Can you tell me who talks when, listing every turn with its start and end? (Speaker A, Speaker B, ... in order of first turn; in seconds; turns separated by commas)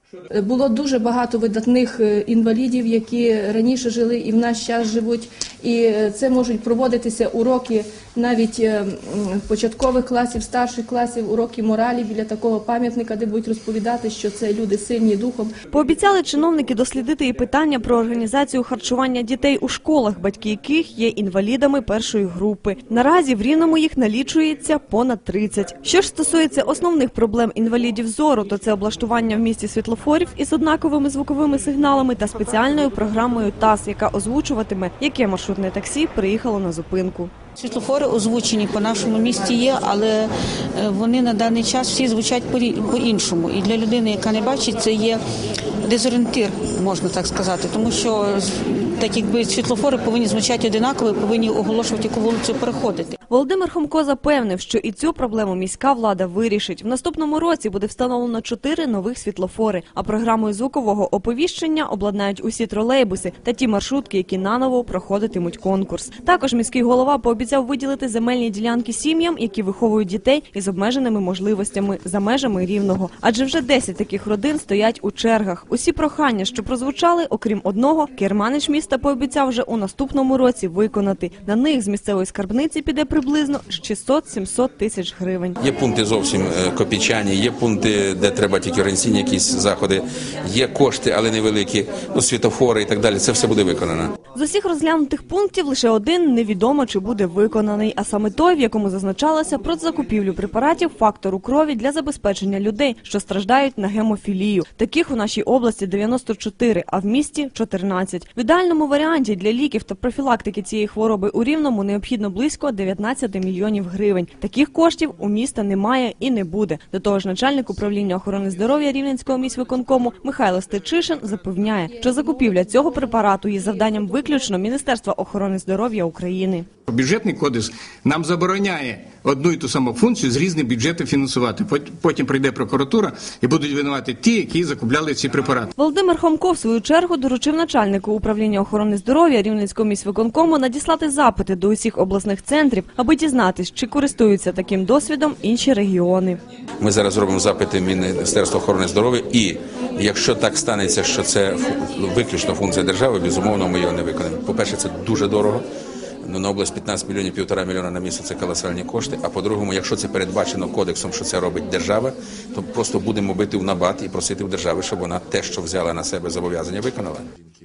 Speaker A: 0.3-15.5, Speaker B: 15.7-37.3, Speaker C: 37.6-45.2, Speaker C: 45.8-53.2, Speaker B: 53.3-85.6, Speaker D: 85.6-94.2, Speaker B: 94.3-126.7, Speaker E: 126.9-135.7, Speaker B: 135.8-146.4, Speaker D: 146.8-155.7, Speaker D: 156.2-167.3